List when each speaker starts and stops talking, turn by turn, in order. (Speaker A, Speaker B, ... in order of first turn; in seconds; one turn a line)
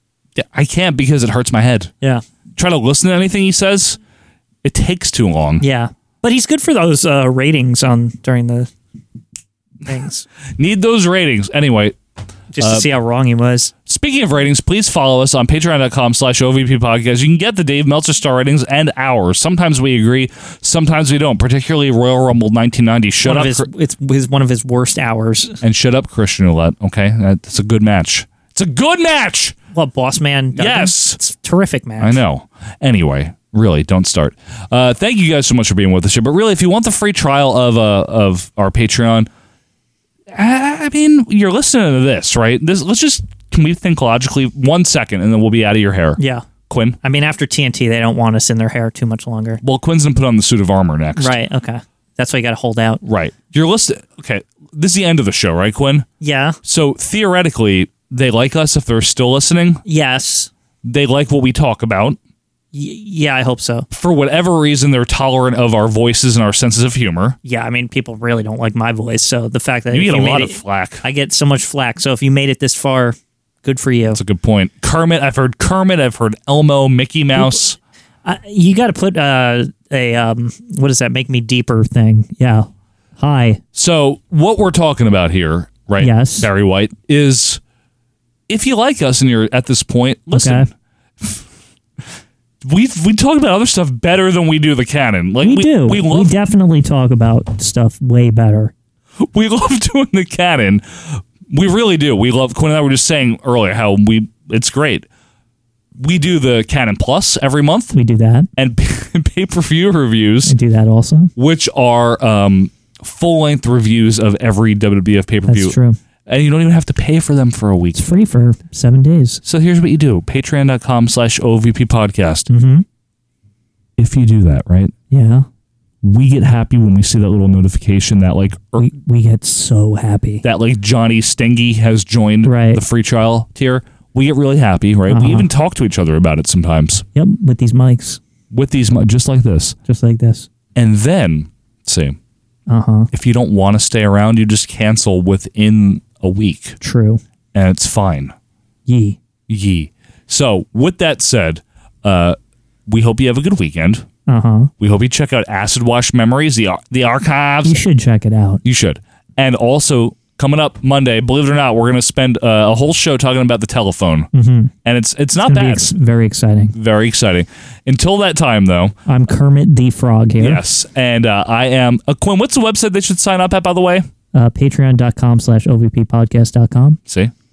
Speaker A: 0.3-1.9
Speaker A: 2.6-4.0
Speaker A: 4.6-5.6
Speaker B: 5.6-8.7
Speaker B: 9.8-10.2
Speaker A: 10.6-11.9
Speaker B: 12.5-13.7
Speaker A: 12.6-12.9
Speaker A: 13.9-23.6
Speaker B: 23.2-25.6
Speaker A: 25.6-29.6
Speaker B: 29.7-32.2
Speaker A: 30.6-31.2
Speaker A: 32.0-39.3
Speaker A: 40.3-47.0
Speaker B: 46.2-46.5
Speaker B: 47.0-49.6
Speaker A: 49.6-51.4
Speaker B: 51.2-53.0
Speaker A: 53.0-56.1
Speaker B: 56.2-56.6
Speaker A: 56.6-59.8
Speaker B: 59.8-60.5
Speaker A: 60.8-62.2
Speaker B: 62.7-63.9
Speaker A: 63.9-67.4
Speaker B: 67.4-74.2
Speaker A: 69.9-71.0
Speaker A: 74.1-77.8
Speaker B: 77.3-77.6
Speaker B: 78.2-82.7
Speaker B: 83.2-83.6
Speaker A: 83.7-87.6
Speaker B: 86.0-86.5
Speaker A: 88.5-90.7
Speaker B: 90.3-90.7
Speaker A: 92.6-96.3
Speaker B: 95.4-98.7
Speaker A: 99.3-105.0
Speaker A: 106.0-108.0
Speaker B: 107.9-108.5
Speaker A: 108.6-110.5
Speaker B: 110.5-111.3
Speaker A: 111.4-115.8
Speaker B: 115.5-116.0
Speaker A: 116.3-118.0
Speaker B: 117.9-119.4
Speaker A: 119.4-122.5
Speaker B: 122.5-122.8
Speaker A: 124.0-124.9
Speaker B: 125.1-125.5
Speaker A: 126.0-128.9
Speaker B: 128.8-130.4
Speaker A: 130.4-137.0
Speaker B: 132.4-132.8
Speaker B: 135.1-135.5
Speaker B: 137.1-138.2
Speaker A: 138.5-139.8
Speaker B: 139.9-140.5
Speaker A: 140.7-142.2
Speaker B: 142.7-143.1
Speaker A: 143.1-146.8
Speaker B: 146.8-147.2
Speaker A: 147.5-148.3
Speaker B: 148.9-149.2
Speaker A: 149.5-154.1
Speaker B: 154.3-154.7
Speaker A: 154.8-157.8
Speaker B: 157.6-158.6
Speaker A: 158.6-164.3
Speaker B: 164.3-164.7
Speaker A: 164.8-165.9
Speaker B: 165.4-166.7
Speaker A: 166.7-168.9
Speaker B: 169.1-170.6
Speaker A: 170.4-174.1
Speaker B: 174.3-177.0
Speaker A: 177.1-177.3